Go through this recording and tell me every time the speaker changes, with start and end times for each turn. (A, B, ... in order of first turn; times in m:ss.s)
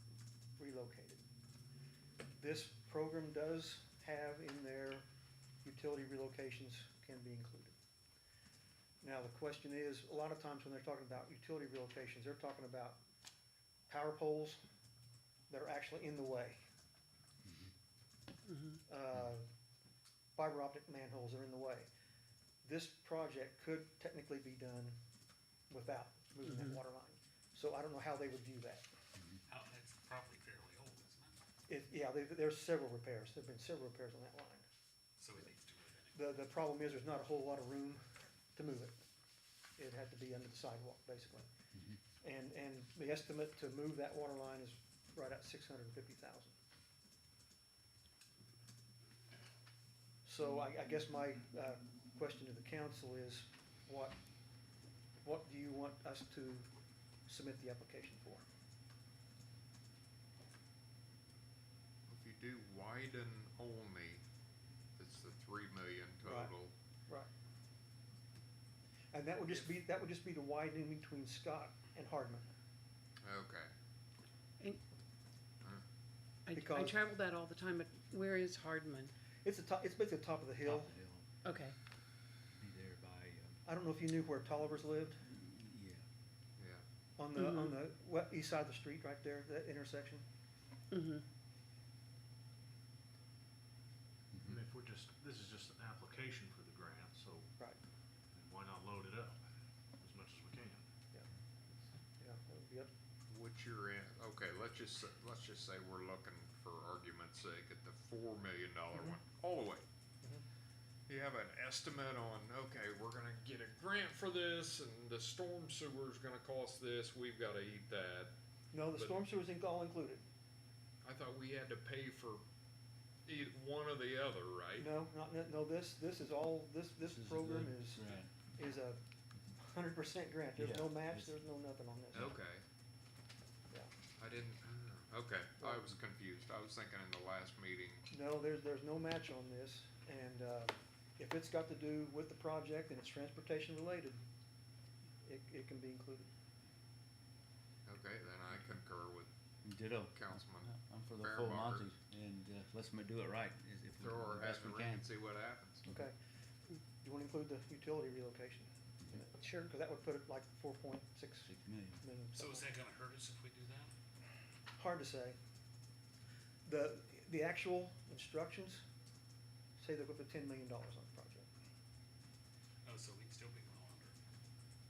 0:00.6-0:01.2 A
0:02.4-0:05.0 A
0:05.6-0:07.7 A
0:09.0-0:13.0 A
0:13.9-0:14.6 A
0:15.5-0:16.6 A
0:18.5-0:18.8 B
0:18.9-0:19.5 A
0:20.4-0:21.9 A
0:22.6-0:25.0 A
0:25.7-0:28.9 A
0:26.4-0:26.8 B
0:29.5-0:31.4 C
0:31.7-0:34.7 A
0:35.2-0:36.2 C
0:36.2-0:38.0 A
0:38.6-0:39.0 A
0:39.8-0:41.5 A
0:42.2-0:46.6 A
0:50.2-0:54.2 A
0:55.2-0:56.7 A
0:57.3-0:58.4 A
1:02.1-1:04.2 D
1:05.0-1:06.7 D
1:06.2-1:06.6 A
1:09.1-1:12.5 A
1:13.2-1:13.7 D
1:16.5-1:19.1 B
1:16.5-1:17.0 A
1:19.4-1:20.9 A
1:20.6-1:21.3 E
1:21.4-1:21.8 B
1:22.6-1:23.6 E
1:23.7-1:25.2 A
1:25.3-1:26.0 E
1:26.6-1:26.8 D
1:27.2-1:30.3 A
1:27.4-1:27.8 B
1:30.9-1:31.2 B
1:34.3-1:34.6 E
1:34.4-1:37.5 F
1:38.3-1:39.4 F
1:40.0-1:40.8 F
1:41.9-1:42.9 A
1:43.3-1:49.9 D
1:51.1-1:58.3 D
1:58.7-2:00.2 A
1:58.9-1:59.2 D
2:01.0-2:02.4 D
2:03.3-2:04.9 D
2:04.8-2:09.0 A
2:07.0-2:08.3 E
2:09.6-2:12.3 A
2:10.6-2:11.4 E
2:12.1-2:12.6 D
2:14.2-2:18.1 D
2:18.1-2:24.2 A
2:25.2-2:26.3 A
2:27.9-2:29.3 D
2:29.6-2:35.1 E
2:30.1-2:31.9 D
2:34.0-2:35.8 D
2:35.9-2:36.1 A
2:37.0-2:42.7 A
2:39.4-2:39.7 B
2:41.4-2:42.0 E
2:42.4-2:43.9 C
2:44.8-2:45.4 A
2:46.7-2:48.8 A
2:49.8-2:51.5 A
2:52.8-2:54.2 C